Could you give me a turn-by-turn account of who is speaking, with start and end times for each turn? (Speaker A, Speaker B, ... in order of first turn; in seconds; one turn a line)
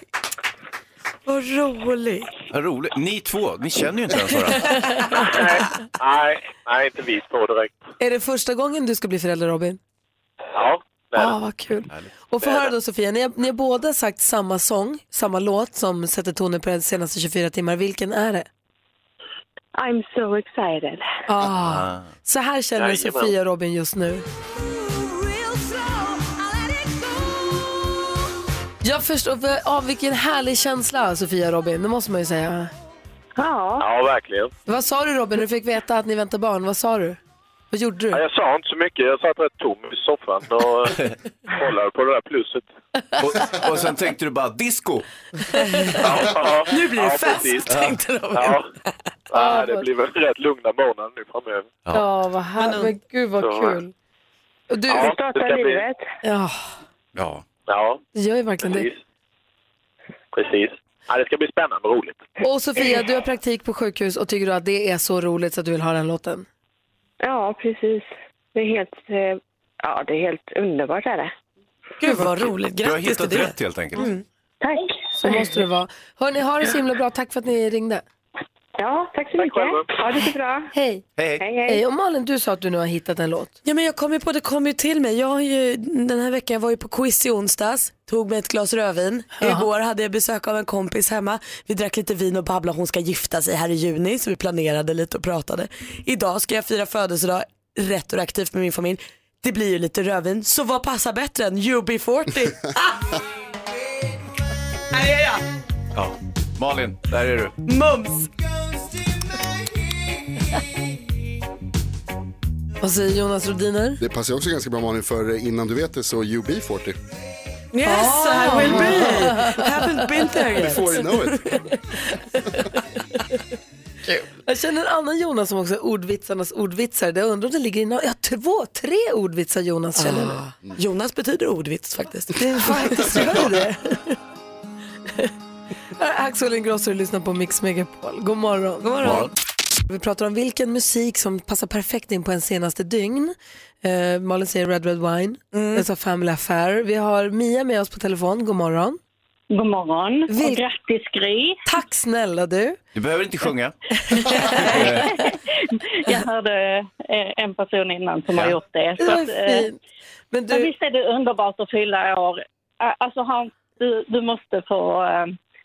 Speaker A: 1.2-2.3
Speaker B: 2.5-5.2
Speaker C: 5.3-7.7
Speaker D: 8.0-9.8
Speaker C: 10.5-11.3
Speaker D: 11.1-18.5
Speaker C: 12.4-12.7
Speaker E: 19.8-21.1
Speaker D: 21.3-24.2
Speaker B: 21.5-22.1
Speaker C: 22.8-23.3
Speaker D: 28.8-32.7
Speaker E: 33.4-33.9
Speaker C: 33.8-34.5
Speaker D: 34.7-37.2
Speaker D: 37.7-38.2
Speaker C: 38.1-41.0
Speaker C: 41.5-42.7
Speaker B: 43.2-45.0
Speaker A: 45.5-48.9
Speaker C: 46.0-47.7
Speaker B: 47.7-48.0
Speaker C: 48.3-48.7
Speaker C: 49.3-51.8
Speaker D: 49.3-49.8
Speaker D: 51.9-53.9
Speaker A: 52.6-52.9
Speaker D: 54.7-55.1
Speaker C: 54.9-55.9
Speaker E: 54.9-56.0
Speaker D: 56.2-56.7
Speaker B: 57.2-57.4
Speaker C: 57.7-58.0
Speaker D: 58.1-58.9
Speaker C: 58.6-59.0
Speaker C: 60.3-62.3
Speaker D: 62.4-66.5
Speaker E: 67.2-71.3
Speaker A: 72.0-74.2
Speaker B: 72.8-74.1
Speaker E: 74.6-75.3
Speaker D: 75.2-78.0
Speaker E: 78.8-80.7
Speaker C: 79.4-79.9
Speaker D: 80.7-81.0
Speaker B: 81.2-81.4
Speaker E: 81.4-81.8
Speaker D: 81.7-83.5
Speaker A: 83.6-102.9
Speaker D: 89.4-89.7
Speaker A: 104.9-105.4
Speaker B: 105.9-107.5
Speaker A: 107.7-108.3
Speaker D: 112.8-114.0
Speaker F: 114.0-117.0
Speaker A: 117.7-121.5
Speaker D: 117.8-119.8
Speaker F: 118.6-119.0
Speaker F: 120.5-121.5
Speaker D: 124.4-130.4
Speaker A: 130.0-133.1
Speaker D: 132.3-134.1
Speaker D: 135.9-139.2
Speaker A: 138.8-139.3
Speaker D: 139.9-149.0
Speaker A: 145.5-145.8
Speaker G: 149.5-151.6
Speaker D: 150.3-150.6
Speaker D: 151.7-152.8
Speaker B: 152.9-153.7
Speaker D: 154.1-155.1
Speaker B: 154.3-155.2
Speaker G: 154.8-155.3
Speaker G: 155.9-159.7
Speaker D: 159.0-159.7
Speaker D: 160.3-160.7
Speaker G: 160.5-165.3